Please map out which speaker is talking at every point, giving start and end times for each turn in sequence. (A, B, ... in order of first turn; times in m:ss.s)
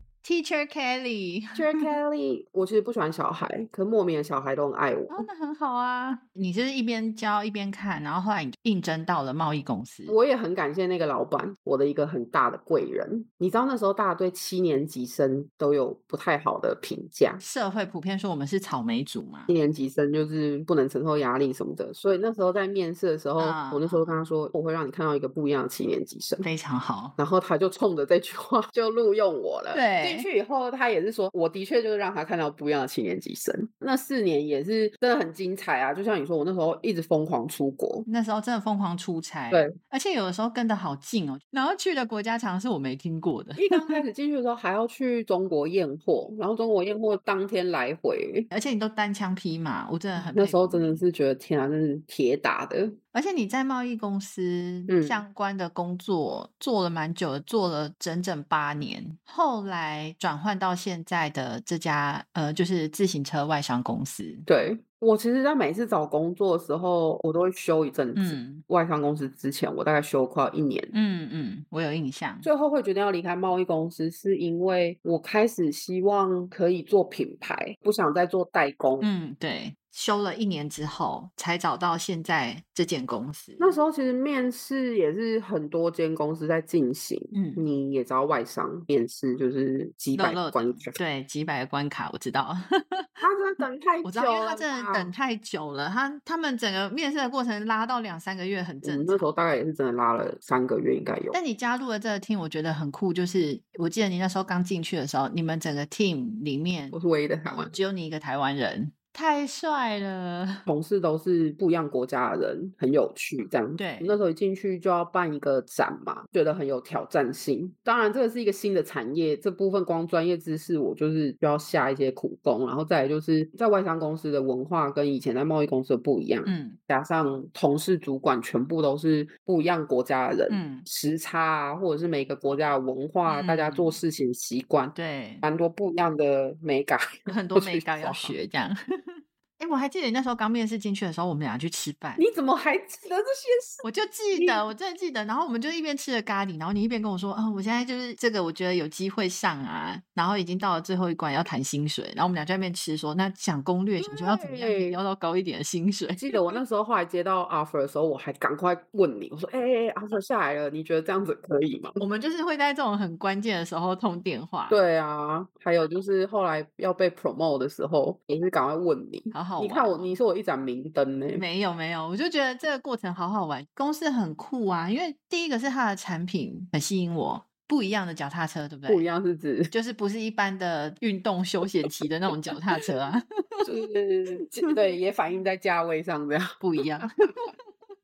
0:00.2-0:01.8 A
0:01.5-0:05.3 B
0:05.1-0:10.1 A
0:10.1-0:17.4 B
0:17.4-0:19.5 A
0:19.5-0:26.4 B
0:23.4-0:24.2 A
0:26.4-0:27.2 A
0:27.2-0:38.0 B
0:29.7-0:30.3 A
0:38.0-0:44.0 A
0:43.6-0:48.5 B
0:48.5-0:51.0 A
0:50.2-0:53.0 B
0:53.1-1:04.4 A
0:54.9-0:55.2 B
1:04.4-1:10.9 B
1:08.2-1:08.6 A
1:10.9-1:12.5 A
1:12.4-1:19.1 B
1:19.0-1:23.8 A
1:23.6-1:31.0 B
1:27.3-1:27.6 A
1:30.1-1:33.1 A
1:33.2-1:35.1 B
1:34.0-1:39.3 A
1:38.8-1:41.4 B
1:41.3-1:47.0 A
1:46.9-1:47.7 B
1:47.7-1:50.6 A
1:50.7-2:18.3 B
1:53.8-1:54.2 A
2:06.4-2:06.8 A
2:10.5-2:10.8 A
2:13.3-2:14.0 A
2:14.9-2:15.4 A
2:17.3-2:22.2 A
2:22.2-2:23.8 B
2:23.8-2:36.6 A
2:24.4-2:24.6 B
2:34.0-2:35.0 B
2:36.2-2:42.0 B
2:42.0-2:44.8 A
2:44.7-2:51.4 B
2:49.3-2:50.1 A
2:51.4-2:59.1 A
2:58.9-2:59.7 B
2:59.7-3:03.6 A
3:03.6-3:06.6 B
3:06.6-3:07.5 A